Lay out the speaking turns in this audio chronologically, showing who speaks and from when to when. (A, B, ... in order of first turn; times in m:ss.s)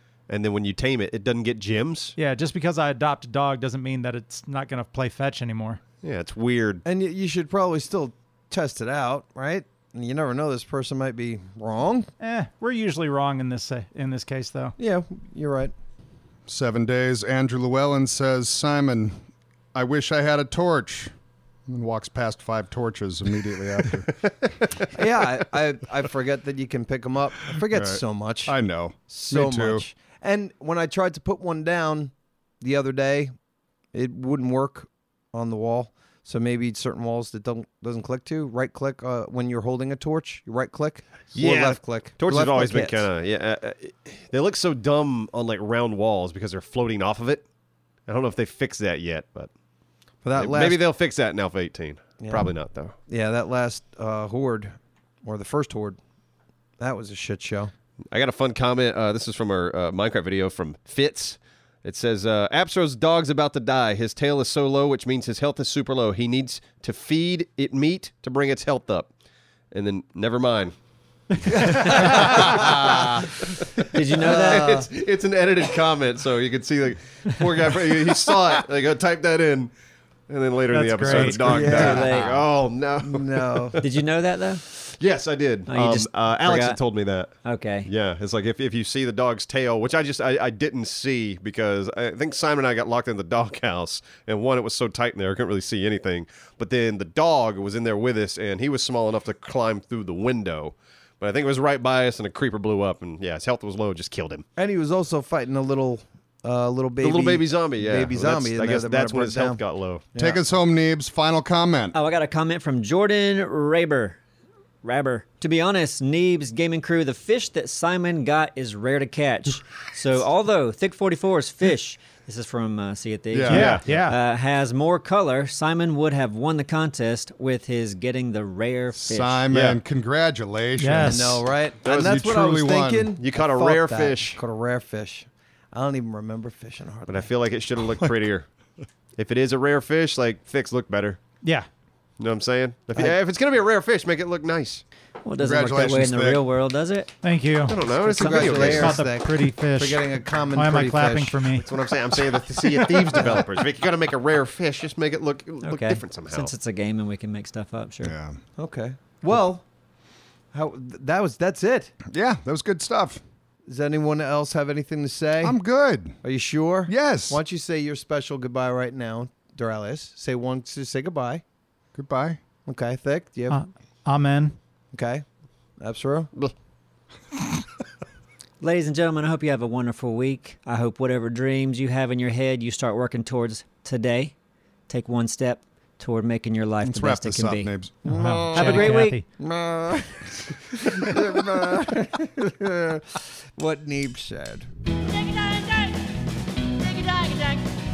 0:00.3-0:02.2 A
0:02.2-0:05.8 B
0:06.0-0:06.8 A
0:06.9-0:12.1 C
0:12.2-0:14.8 B
0:14.8-0:15.7 C
0:16.5-0:19.2 D
0:19.7-0:21.1 D
0:21.7-0:24.1 D
0:23.8-0:25.0 A
0:24.9-0:28.6 C
0:27.7-0:29.8 D
0:29.1-0:33.3 C
0:33.9-0:43.1 C
0:41.3-0:47.4 A
0:48.1-0:49.5 A
0:50.2-0:50.8 C
0:50.4-0:53.0 A
0:52.2-0:52.5 C
0:53.1-0:56.0 C
0:56.8-0:57.7 C
0:58.1-1:09.1 A
1:09.7-1:10.7 A
1:11.4-1:19.7 A
1:11.5-1:12.7 B
1:11.7-1:11.9 C
1:12.6-1:13.1 D
1:12.7-1:13.1 C
1:13.9-1:14.8 E
1:14.2-1:14.9 C
1:20.3-1:23.8 A
1:20.7-1:22.0 B
1:21.4-1:22.2 C
1:21.6-1:22.5 E
1:23.0-1:23.8 C
1:23.8-1:24.6 E
1:24.7-1:44.4 A
1:25.7-1:26.8 E
1:27.4-1:27.9 E
1:44.6-1:49.6 C
1:47.0-1:50.0 A
1:50.2-1:50.4 C
1:50.2-1:52.0 D
1:51.9-1:54.2 E
1:54.8-2:09.4 E
2:03.3-2:03.8 D
2:03.5-2:04.2 B
2:03.5-2:03.8 A
2:09.0-2:13.1 D
2:09.5-2:09.8 A
2:10.8-2:11.4 B
2:11.0-2:17.3 C
2:11.8-2:12.2 A
2:13.2-2:14.4 A
2:17.1-2:18.5 A
2:19.2-2:21.2 A
2:22.2-2:24.8 A
2:25.2-2:27.1 E
2:25.4-2:26.4 D
2:27.2-2:33.5 B
2:27.7-2:29.0 A
2:27.9-2:31.4 C
2:31.6-2:36.5 A
2:33.2-2:33.4 C
2:35.6-2:38.2 E
2:38.0-2:38.4 D
2:38.6-2:39.6 C
2:40.5-2:41.9 C
2:42.1-2:43.2 D
2:43.7-2:45.6 C
2:45.4-2:46.2 D
2:46.2-2:51.4 C
2:46.9-2:47.4 D
2:52.0-2:52.4 D
2:52.6-2:53.6 C
2:53.5-2:54.6 B
2:54.9-2:55.2 C
2:55.8-2:56.3 C
2:58.6-3:04.3 E
3:04.9-3:07.7 E
3:06.8-3:08.8 D
3:08.1-3:09.3 B
3:08.2-3:14.7 C
3:08.5-3:09.2 E
3:15.0-3:17.7 E